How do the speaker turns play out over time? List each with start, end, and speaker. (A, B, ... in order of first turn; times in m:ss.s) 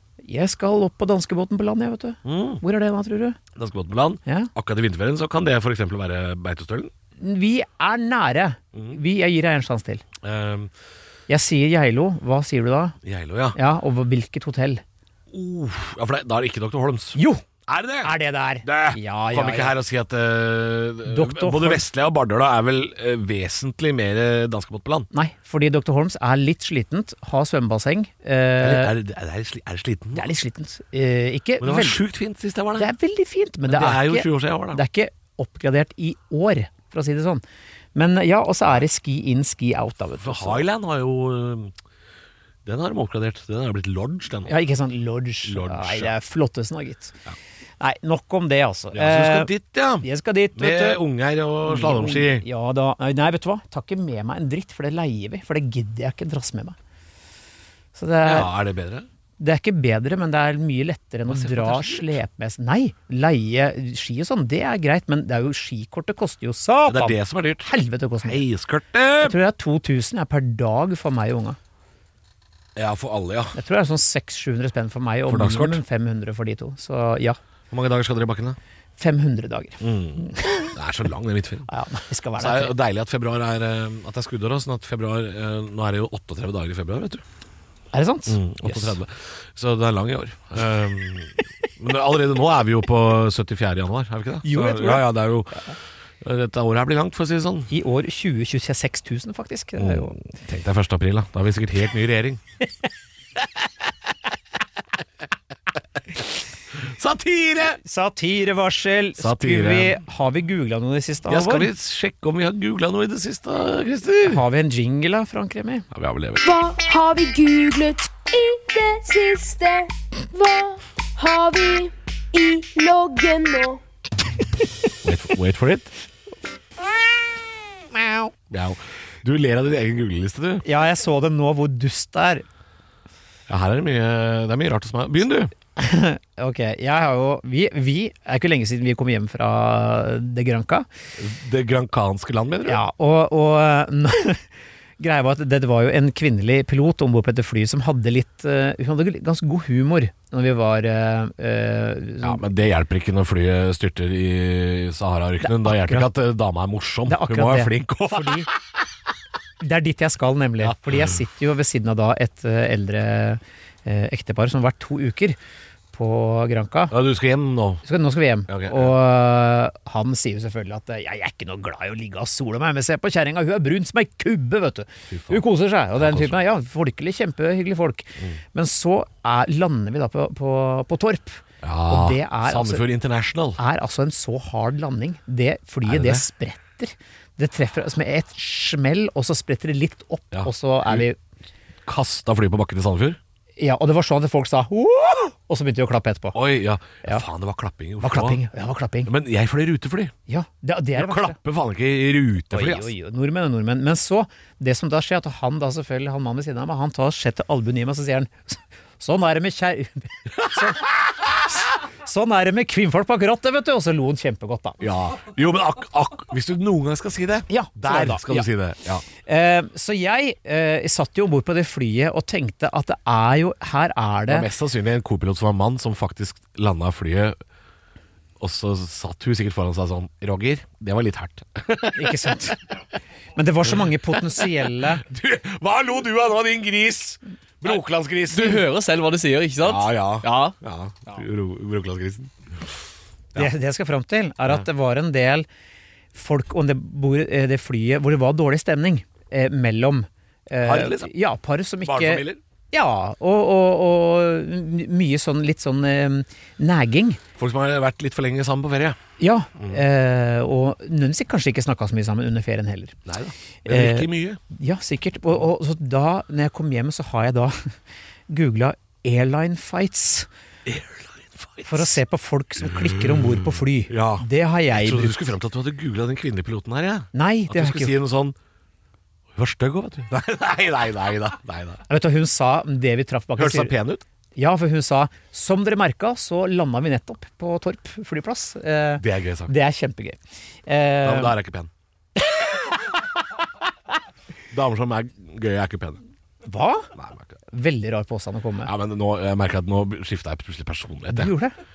0:00.2-0:03.4 A
0:02.2-0:02.6 B
0:03.5-0:06.9 B
0:04.2-0:04.5 A
0:07.2-0:10.0 A
0:08.7-0:09.0 B
0:10.2-0:10.7 B
0:11.3-0:13.0 A
0:13.0-0:13.6 B
0:13.5-0:14.8 A
0:15.3-0:25.1 B
0:17.1-0:17.4 A
0:18.0-0:19.7 A
0:21.0-0:21.8 A
0:25.1-0:28.9 A
0:28.6-0:30.3 B
0:30.2-0:32.0 A
0:31.6-0:32.9 B
0:32.8-0:37.4 A
0:33.7-0:34.8 B
0:37.9-0:40.6 A
0:40.2-0:41.7 B
0:42.6-0:44.5 B
0:44.5-0:47.2 A
0:45.4-0:46.1 B
0:47.8-0:49.5 A
0:48.9-0:52.4 B
0:50.0-0:51.0 A
0:51.6-0:56.8 A
0:57.9-0:58.5 A
0:58.2-0:59.1 B
0:59.4-1:08.4 A
1:01.2-1:02.2 B
1:06.8-1:07.7 B
1:08.2-1:09.4 B
1:09.2-1:11.6 A
1:12.8-1:13.6 B
1:13.5-1:17.4 A
1:15.3-1:15.8 B
1:17.7-1:18.6 B
1:19.0-1:20.7 A
1:19.8-1:21.7 B
1:21.7-1:22.7 A
1:22.4-1:27.2 B
1:27.9-1:29.0 A
1:28.3-1:37.7 B
1:34.4-1:35.7 A
1:37.7-1:40.2 A
1:39.8-1:42.4 B
1:46.7-1:47.8 B
1:47.8-1:51.7 A
1:49.2-1:50.0 B
1:51.3-1:54.4 B
1:54.2-1:55.8 A
1:55.9-1:56.4 B
1:56.4-2:03.8 C
2:05.0-2:05.9 B
2:07.9-2:08.3 A
2:08.5-2:10.6 B
2:10.6-2:12.4 A
2:13.5-2:15.5 B
2:15.8-2:20.9 A
2:21.2-2:22.8 B
2:22.6-2:24.5 A
2:25.0-2:32.4 A
2:32.2-2:38.6 B
2:35.4-2:36.1 A
2:37.1-2:38.5 A
2:39.6-2:45.4 A
2:40.6-2:41.2 B
2:45.9-2:46.9 A
2:46.9-2:47.8 B
2:47.8-3:02.8 A
2:48.5-2:48.9 B
2:55.1-2:55.4 B
2:56.0-2:56.4 B
3:01.6-3:03.6 B
3:03.6-3:11.2 A
3:05.8-3:06.2 B
3:10.3-3:11.0 B
3:11.8-3:13.2 B
3:13.6-3:16.4 A
3:16.3-3:18.4 B
3:18.0-3:19.1 A
3:19.0-3:20.1 B
3:20.3-3:21.4 A
3:21.0-3:22.9 B
3:22.5-3:34.8 A
3:30.5-3:30.7 B
3:34.8-3:39.0 B
3:37.5-3:38.5 A
3:39.2-3:44.5 A
3:44.3-3:47.4 B
3:48.4-3:52.4 B
3:51.9-3:52.6 A
3:53.3-3:55.0 A
3:53.6-3:58.6 B
3:58.3-4:00.6 D
3:59.6-4:02.7 B
4:03.4-4:05.4 A
4:06.1-4:17.2 A
4:10.6-4:11.1 B
4:11.8-4:12.4 B
4:17.4-4:19.0 B
4:19.2-4:23.0 A
4:23.0-4:24.4 B
4:23.6-4:27.7 A
4:28.3-4:30.3 A
4:30.6-4:32.0 B
4:31.7-4:35.2 A
4:32.8-4:38.4 B
4:37.1-4:38.0 A
4:39.3-4:41.8 B
4:41.9-4:43.7 A
4:43.4-4:44.0 B
4:44.4-4:51.3 A
4:49.0-4:49.5 B
4:51.0-4:51.7 B
4:52.2-4:52.9 A
4:54.5-4:56.0 B
4:56.4-4:56.9 A
4:57.0-4:57.3 B
4:57.5-4:58.7 A
4:58.6-5:01.3 B
5:01.1-5:01.5 A